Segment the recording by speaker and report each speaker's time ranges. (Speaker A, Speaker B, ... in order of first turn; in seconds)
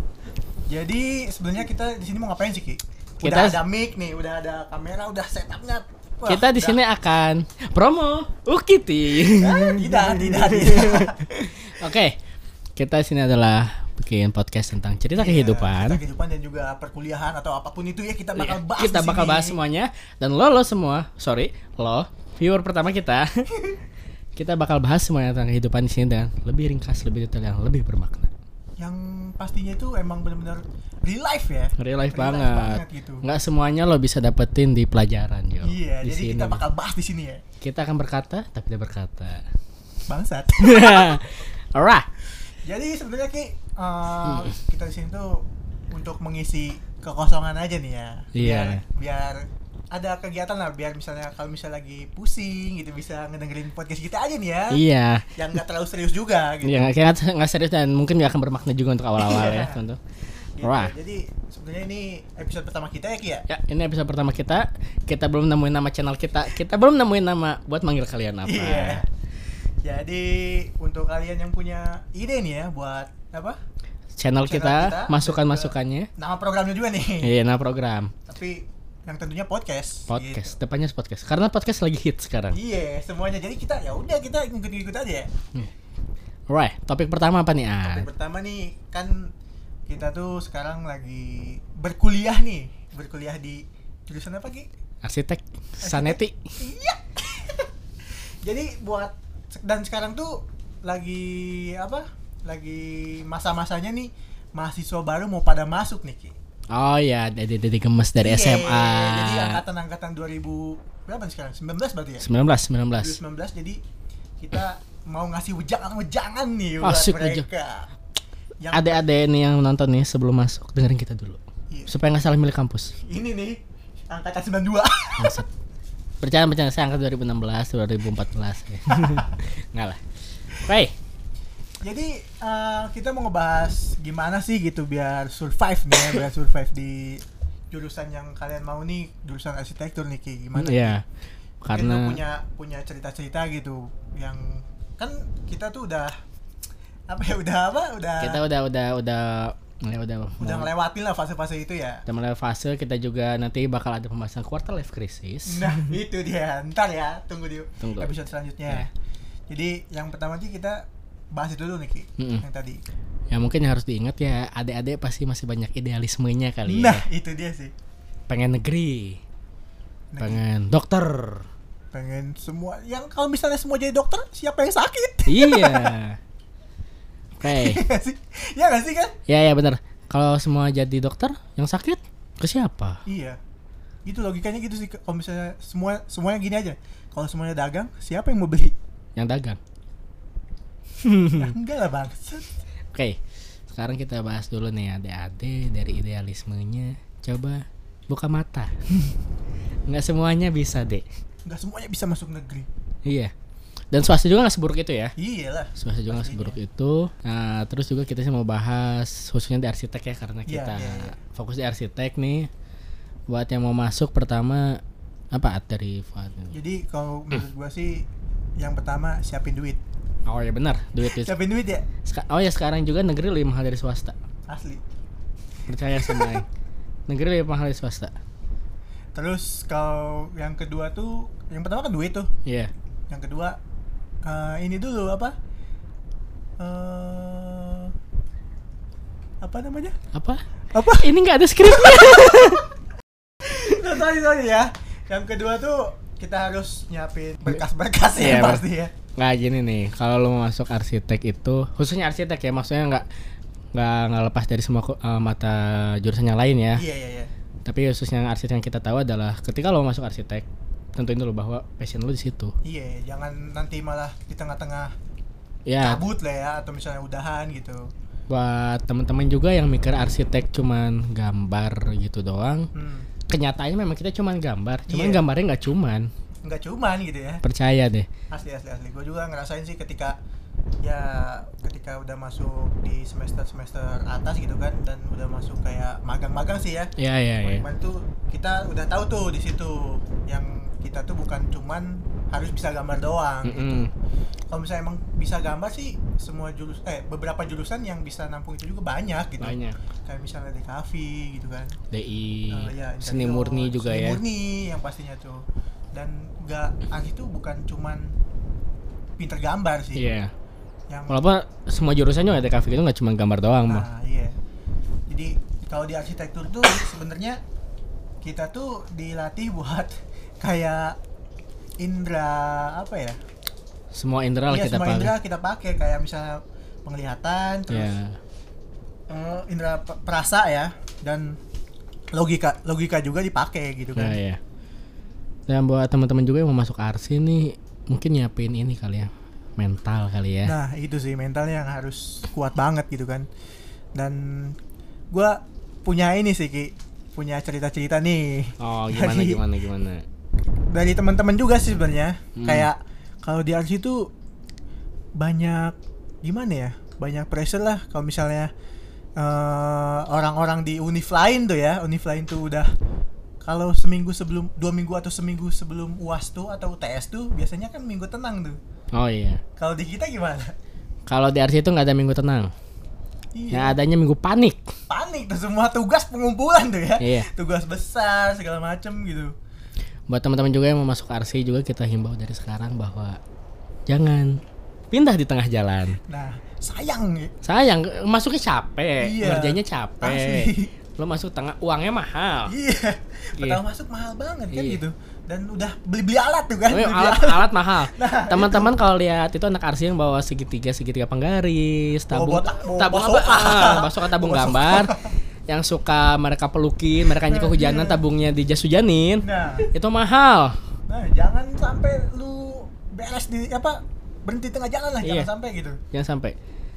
Speaker A: 0.7-6.8, 9.4-11.5, 15.1-19.6, 28.8-33.2, 35.6-37.4, 40.1-41.2, 42.5-54.8, 55.4-56.9, 59.2-59.8, 60.6-63.4, 68.4-69.0, 69.8-73.6, 74.4-77.3, 78.2-80.5, 82.5-85.3, 87.8-89.3, 89.9-94.7, 95.8-106.3, 108.2-112.3, 113.0-113.8, 114.4-117.9, 118.6-119.0, 123.0-123.6, 124.1-125.4, 128.9-129.3, 131.8-140.9, 141.7-146.2, 147.1-148.4, 150.4-152.0, 155.4-158.9, 159.5-162.8, 166.7-167.7, 170.1-170.4, 171.9-175.9, 177.4-179.2, 183.1-183.4, 184.0-188.7, 191.3-192.5, 201.4-202.7, 205.2-206.6, 210.5-211.2, 216.5-218.1, 218.6-219.8, 221.0-221.8, 224.5-224.8, 225.9-226.4, 229.1-232.3, 233.1-233.6, 234.2-235.3, 236.6-237.9, 239.4-240.0, 240.7-241.1, 241.6-242.6, 243.4-248.9, 256.8-257.3, 262.6-264.9, 265.8-267.9, 272.7-273.1, 274.9-275.2, 276.4-277.4, 278.3-280.2, 280.8-293.8, 294.5-301.8, 302.5-308.1, 309.2-310.0, 310.9-311.2, 313.7-314.4, 315.1-317.4, 318.2-321.0, 321.8-323.2, 324.5-327.9, 329.1-331.4, 332.1-334.2, 340.4-343.3, 343.9-344.6, 345.1-349.4, 350.7-354.1, 355.2-358.5, 359.2-362.7, 363.4-368.6, 369.6-370.5, 373.3-373.8, 374.9-379.3, 386.1-387.3, 389.0-390.7, 392.5-398.7, 402.1-405.1, 407.1-408.0, 409.2-409.7, 410.9-415.8
Speaker B: 3.2-3.6, 6.3-12.2, 12.8-16.0, 18.3-23.7, 24.4-28.3, 31.8-36.6, 37.6-39.5, 40.6-42.1, 48.3-48.8, 54.7-55.3, 56.6-60.9, 63.5-69.0, 74.2-76.1, 77.2-78.1, 80.1-82.6, 86.5-88.1, 95.0-96.6, 106.7-109.6, 112.2-113.2, 116.8-117.5, 118.7-123.0, 125.2-125.5, 126.2-130.9, 140.5-141.0, 141.6-142.2, 148.2-150.7, 152.1-155.9, 157.8-158.1, 162.2-162.4, 163.3-167.1, 168.3-169.2, 170.2-171.5, 175.3-176.2, 177.4-177.8, 179.3-183.0, 189.2-189.6, 191.0-191.6, 192.9-193.2, 193.7-198.7, 199.9-201.0, 203.0-203.3, 203.9-205.1, 205.7-212.5, 213.3-214.8, 215.3-216.6, 220.2-221.3, 222.0-224.2, 225.7-226.5, 227.1-228.1, 232.4-232.7, 240.1-242.7, 248.2-253.1, 253.7-256.8, 257.6-262.5, 265.7-266.0, 268.3-272.7, 273.3-276.1, 277.4-278.1, 287.0-287.6, 293.4-293.9, 299.4-299.8, 301.9-304.2, 309.9-310.3, 311.1-313.9, 323.9-325.1, 327.7-328.2, 333.9-334.4, 335.5-340.6, 348.6-350.0, 352.3-352.7, 368.9-369.4, 371.1-372.5, 373.5-374.6, 377.0-377.3, 380.1-383.2, 383.9-386.0, 387.4-392.5, 393.4-393.6, 394.5-394.8, 396.7-410.6, 415.0-415.3, 415.9-416.3